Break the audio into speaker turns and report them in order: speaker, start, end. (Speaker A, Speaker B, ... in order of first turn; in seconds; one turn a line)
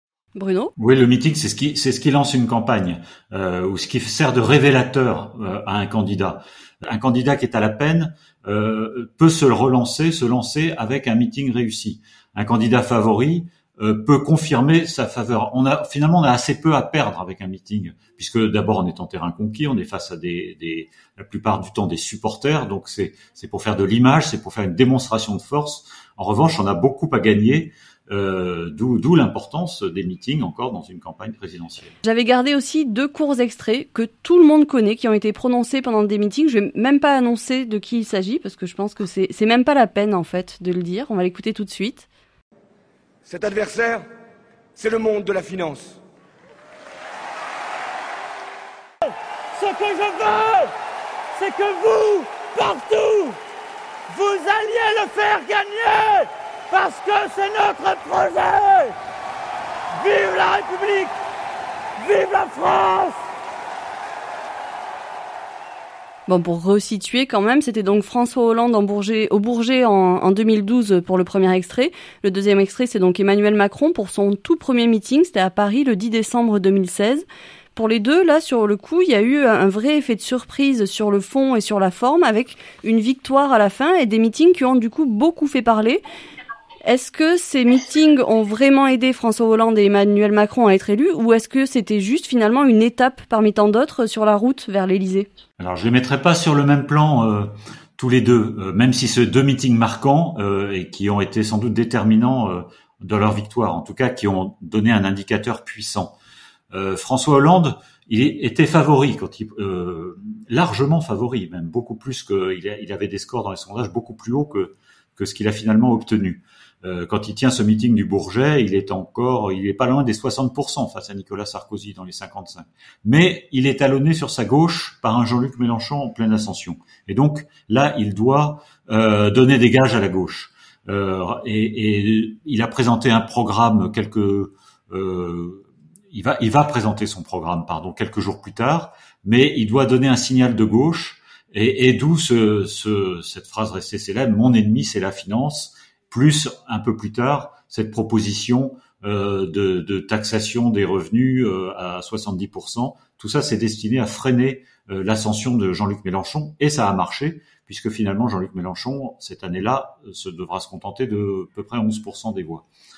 Speaker A: 0.3-0.7
Speaker B: 0.8-31.9
Speaker A: 32.0-42.1
Speaker C: 43.2-44.0
Speaker C: 44.7-46.0
Speaker D: 49.5-50.7
Speaker D: 51.3-53.4
Speaker D: 54.1-58.9
Speaker D: 60.0-61.1
Speaker D: 62.0-63.2
Speaker A: 66.3-86.0
Speaker A: 86.8-95.3
Speaker B: 95.6-106.2
Speaker B: 106.7-162.7